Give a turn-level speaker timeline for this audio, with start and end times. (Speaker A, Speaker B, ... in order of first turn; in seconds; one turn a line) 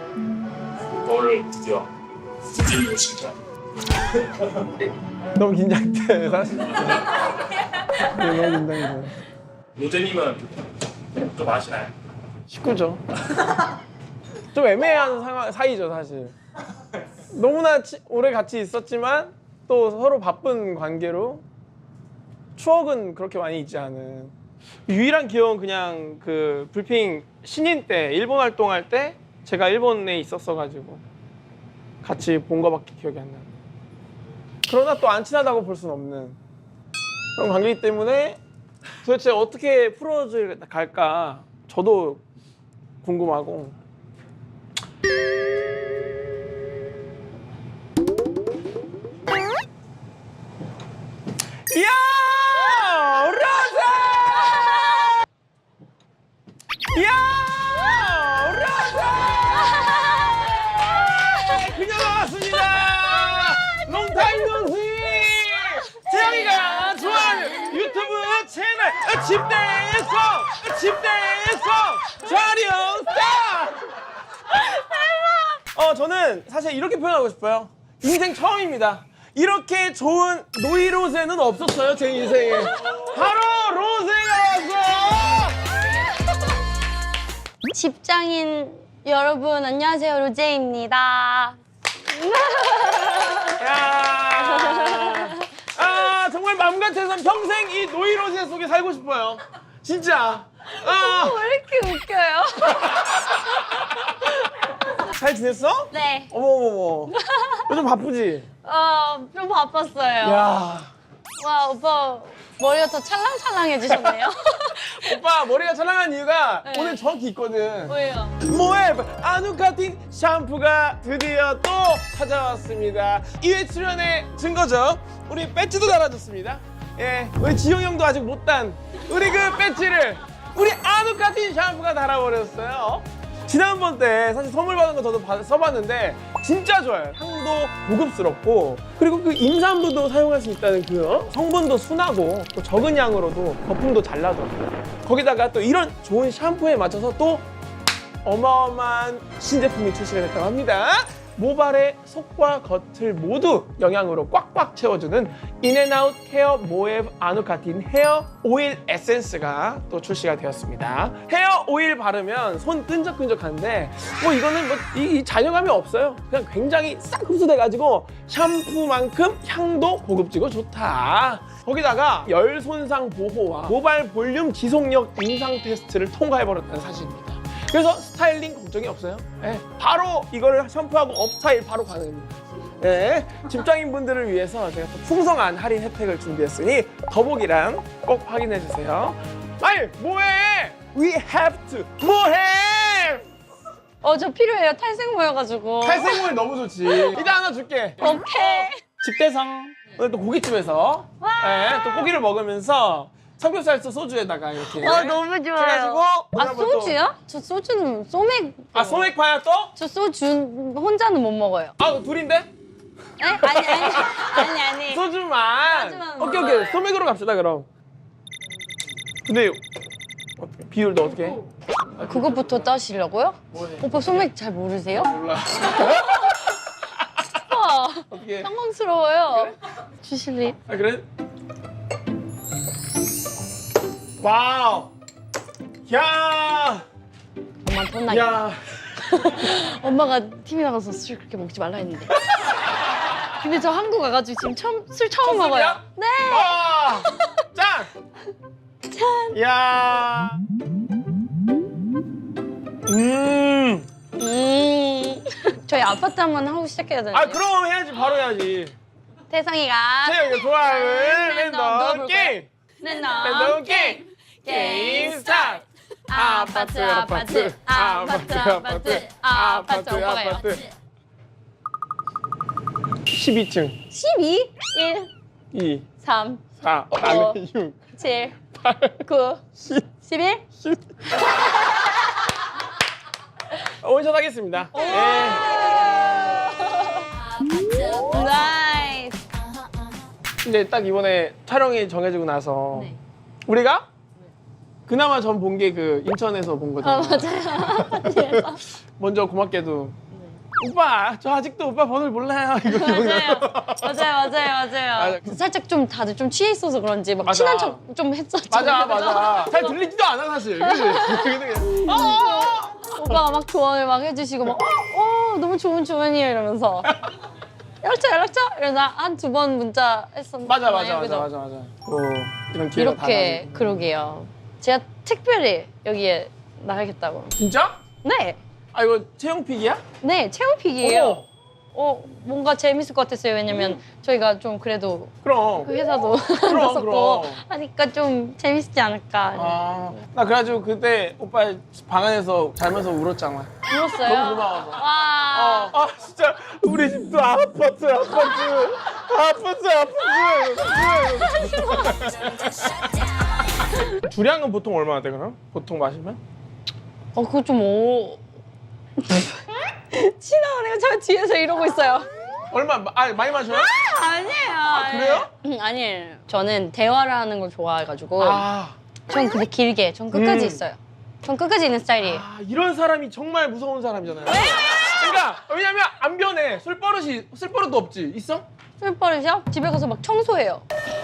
Speaker A: 1.1-1.8
Speaker A: 2.8-3.3
Speaker B: 5.3-7.1
Speaker B: 8.0-9.1
Speaker A: 9.8-10.4
Speaker A: 11.4-11.8
Speaker B: 12.5-13.0
Speaker B: 14.5-16.3
Speaker B: 17.3-21.4
Speaker B: 22.6-24.3
Speaker B: 24.9-31.0
Speaker B: 32.0-33.5
Speaker B: 34.7-36.4
Speaker B: 37.4-38.4
Speaker B: 39.0-42.2
Speaker B: 43.0-43.8
Speaker B: 51.7-55.1
Speaker C: 54.5-55.1
Speaker B: 56.9-73.8
Speaker C: 59.5-61.8
Speaker C: 62.6-63.1
Speaker C: 64.2-64.6
Speaker C: 66.0-68.1
Speaker C: 74.5-75.6
Speaker B: 75.6-85.7
Speaker C: 87.7-93.6
Speaker B: 93.5-101.5
Speaker C: 94.4-95.4
Speaker C: 100.7-104.3
Speaker B: 102.7-104.3
Speaker B: 104.9-108.5
Speaker C: 105.9-106.3
Speaker C: 107.1-107.7
Speaker C: 108.6-110.5
Speaker B: 110.2-110.9
Speaker C: 111.4-115.2
Speaker B: 114.9-147.5
Speaker C: 116.6-117.1
Speaker C: 117.9-118.4
Speaker B: 148.2-193.3
Speaker C: 194.0-196.3
Speaker B: 195.8-207.0
Speaker C: 196.9-197.3
Speaker C: 198.0-198.8
Speaker C: 201.2-202.1
Speaker C: 204.7-209.1
Speaker B: 208.7-209.7
Speaker C: 209.8-211.8
Speaker B: 211.8-212.5
Speaker C: 213.2-215.0
Speaker B: 213.4-217.7
Speaker C: 215.6-216.8
Speaker B: 219.2-219.6
Speaker B: 220.4-221.4
Speaker C: 222.0-225.1
Speaker B: 223.5-224.1
Speaker B: 225.0-226.4
Speaker C: 225.8-226.1
Speaker C: 227.3-230.6
Speaker B: 228.1-228.5
Speaker B: 230.7-231.0
Speaker B: 234.2-234.9
Speaker B: 235.8-236.8
Speaker C: 237.6-238.4
Speaker B: 238.1-239.3
Speaker C: 239.0-242.2
Speaker C: 243.3-247.4
Speaker B: 245.2-247.9
Speaker C: 248.9-249.4
Speaker B: 249.3-250.4
Speaker B: 252.8-253.9
Speaker C: 254.2-257.4
Speaker B: 257.1-258.8
Speaker C: 259.3-270.6
Speaker B: 260.0-262.5
Speaker B: 263.2-270.6
Speaker B: 273.1-273.8
Speaker C: 273.9-275.1
Speaker B: 275.5-275.9
Speaker C: 276.0-276.4
Speaker B: 276.6-277.8
Speaker C: 277.0-277.4
Speaker C: 277.9-278.4
Speaker B: 278.5-279.0
Speaker C: 279.0-279.4
Speaker B: 279.6-279.8
Speaker C: 280.0-280.4
Speaker C: 281.1-282.3
Speaker B: 283.7-285.9
Speaker C: 284.7-287.1
Speaker C: 287.8-289.2
Speaker B: 290.4-292.9
Speaker B: 293.4-293.9
Speaker B: 294.9-299.9
Speaker C: 296.8-298.6
Speaker B: 300.6-304.1
Speaker C: 302.6-309.8
Speaker B: 304.9-305.4
Speaker B: 307.2-307.8
Speaker B: 308.5-313.2
Speaker C: 310.6-317.0
Speaker C: 317.8-321.3
Speaker B: 320.4-323.8
Speaker C: 322.8-327.4
Speaker B: 327.4-327.8
Speaker C: 328.0-328.4
Speaker B: 328.7-329.8
Speaker C: 330.0-331.2
Speaker B: 330.8-331.2
Speaker C: 331.7-339.6
Speaker B: 335.2-335.7
Speaker B: 336.4-337.4
Speaker B: 339.4-353.1
Speaker C: 343.6-345.7
Speaker C: 350.9-352.5
Speaker B: 353.6-356.2
Speaker C: 357.1-358.2
Speaker C: 359.0-362.1
Speaker B: 362.5-363.9
Speaker C: 363.5-368.4
Speaker B: 364.7-365.3
Speaker B: 368.2-368.8
Speaker C: 369.1-372.2
Speaker B: 370.1-370.6
Speaker B: 372.0-378.4
Speaker C: 374.3-375.0
Speaker C: 378.8-380.7